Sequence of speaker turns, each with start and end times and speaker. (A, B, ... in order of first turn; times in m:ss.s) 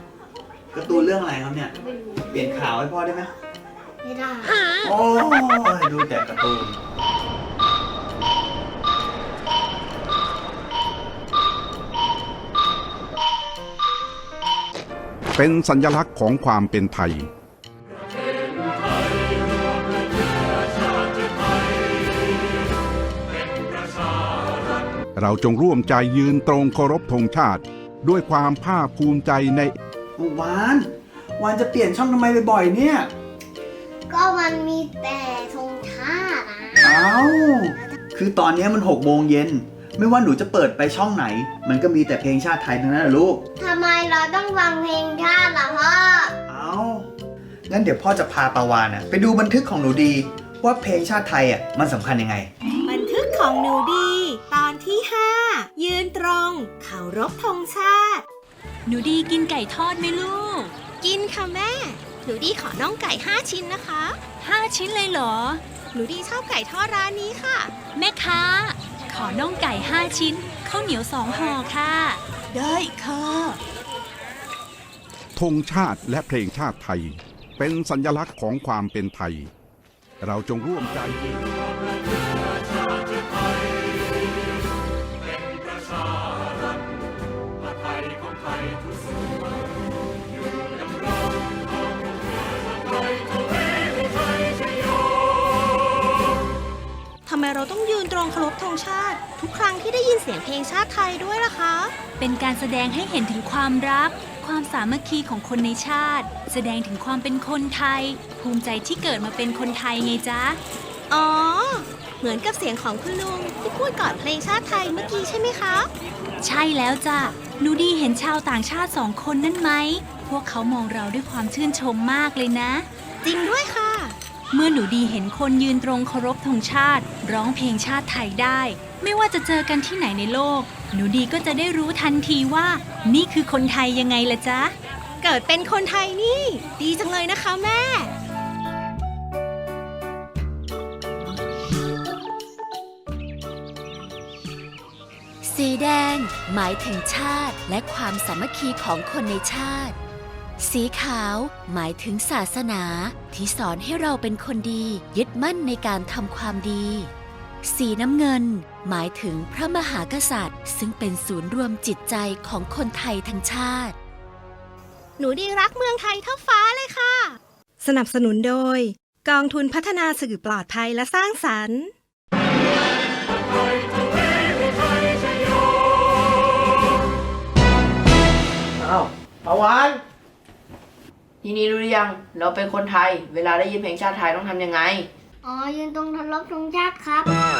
0:00.7-0:01.7 A
0:02.0-0:02.6 B
0:02.3-0:03.3 A
0:04.0-0:04.7 B
0:04.8-0:06.8 A
0:15.3-0:17.2 C
0:25.2-0:29.7 C
0:30.2-0:33.1 A
0:34.1-0:37.0 B
0:36.8-0:43.4 A
0:43.6-0:46.3 B
0:46.5-0:47.1 A
0:47.7-0:52.5 A
0:52.8-0:58.2 D
0:58.8-1:00.7 E
1:01.0-1:04.2 D
1:04.4-1:05.6 E
1:05.9-1:07.7 D
1:07.9-1:13.5 E
1:15.4-1:19.5 C
1:20.2-1:21.4 C
1:37.2-1:41.9 D
1:42.2-1:50.6 E
1:51.1-1:55.9 D
1:56.4-2:02.9 E
2:03.2-2:04.2 D
2:04.5-2:14.7 E
2:15.2-2:18.1 D
2:25.4-2:30.0 F
2:30.6-2:37.1 F
2:37.6-2:44.0 F
2:45.2-2:51.9 D
2:58.8-3:00.0 G
3:01.4-3:05.1 G
3:05.4-3:07.3 B